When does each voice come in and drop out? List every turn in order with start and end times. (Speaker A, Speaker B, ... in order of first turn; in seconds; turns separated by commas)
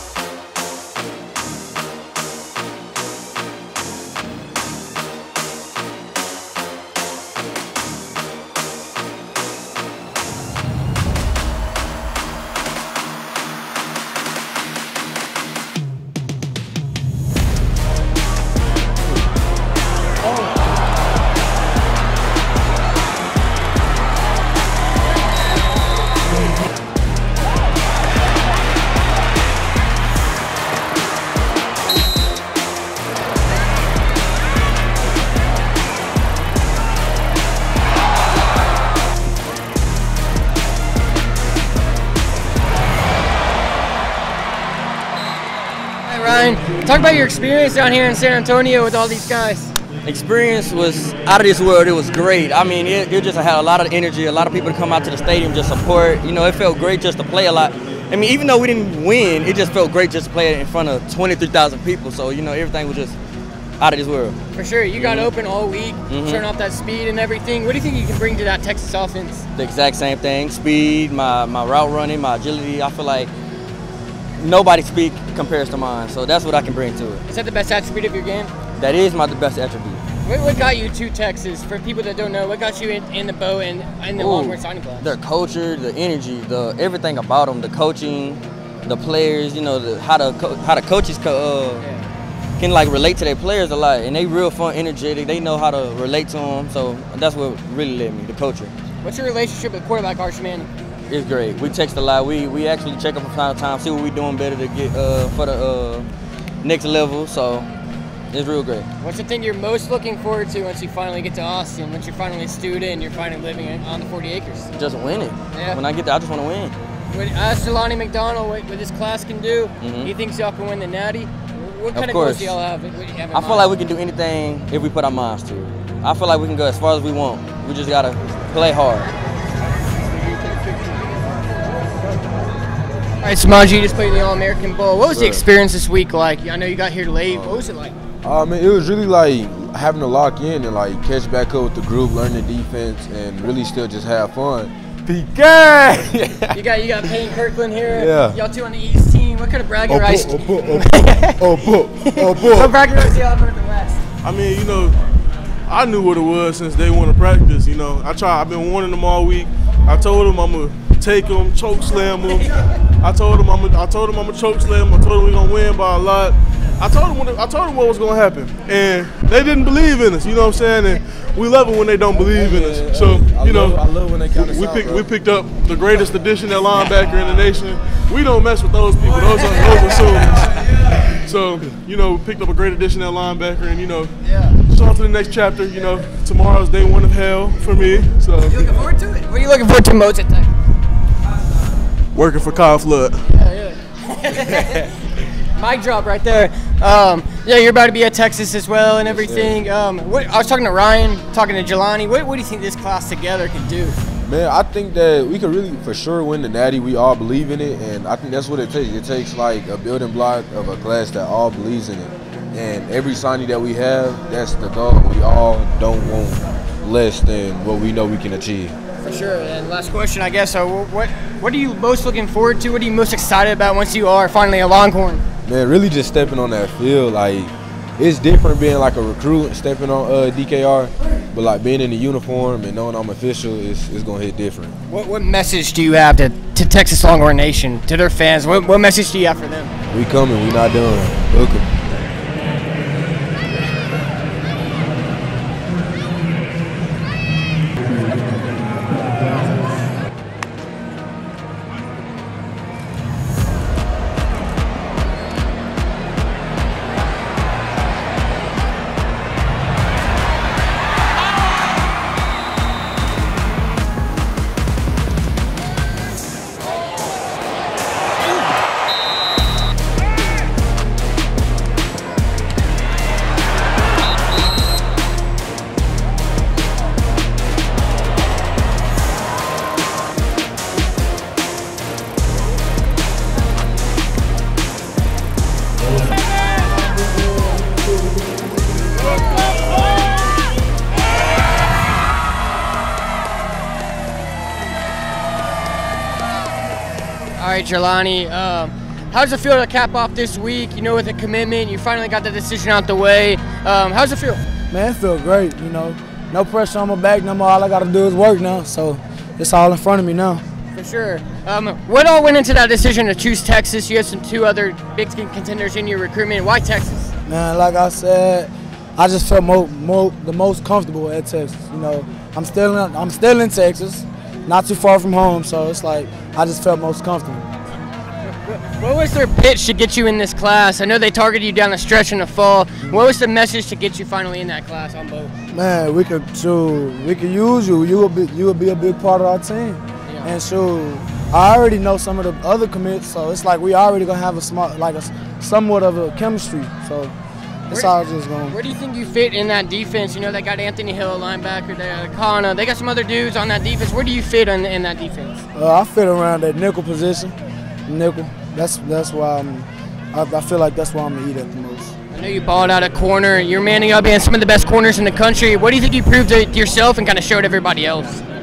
Speaker A: 46.0-49.8, Speaker B: 50.0-63.2, Speaker B: 63.8-64.4, Speaker A: 64.5-69.5, Speaker B: 65.0-65.3, Speaker B: 66.1-66.5, Speaker B: 69.5-73.3, Speaker B: 74.4-77.2, Speaker A: 77.3-78.5, Speaker B: 78.8-80.0, Speaker A: 80.2-85.1, Speaker B: 84.2-91.8, Speaker A: 91.8-92.1, Speaker B: 92.6-98.7, Speaker A: 99.0-100.7, Speaker B: 101.1-106.1, Speaker B: 106.6-107.7, Speaker B: 108.3-108.9, Speaker A: 109.0-114.7, Speaker B: 114.7-116.8, Speaker A: 115.5-115.8, Speaker A: 117.1-123.8, Speaker B: 119.8-120.1, Speaker B: 121.9-122.5, Speaker B: 123.3-129.1, Speaker A: 133.2-138.0, Speaker C: 135.1-135.4, Speaker C: 137.3-137.7, Speaker C: 138.2-146.5, Speaker A: 146.5-154.0, Speaker C: 147.9-148.4, Speaker C: 149.9-152.8, Speaker D: 154.2-154.9, Speaker D: 155.7-162.5, Speaker D: 163.0-173.8, Speaker C: 172.1-175.1, Speaker D: 174.3-184.1, Speaker D: 184.7-188.7, Speaker A: 188.4-190.5, Speaker D: 192.1-193.2, Speaker A: 193.2-194.9, Speaker A: 195.4-204.0, Speaker C: 199.0-199.6, Speaker C: 204.2-218.8, Speaker A: 219.0-225.2, Speaker C: 225.5-234.8, Speaker A: 234.9-239.7, Speaker C: 239.9-242.1, Speaker A: 297.4-304.5, Speaker E: 304.7-310.4, Speaker A: 310.8-317.1, Speaker E: 317.3-327.5, Speaker A: 328.3-335.3, Speaker E: 332.8-333.1, Speaker E: 335.5-347.1, Speaker A: 340.1-340.4, Speaker A: 347.7-347.9, Speaker E: 347.7-348.6, Speaker A: 348.5-355.4, Speaker E: 355.6-357.4, Speaker E: 357.9-361.9, Speaker A: 362.1-368.2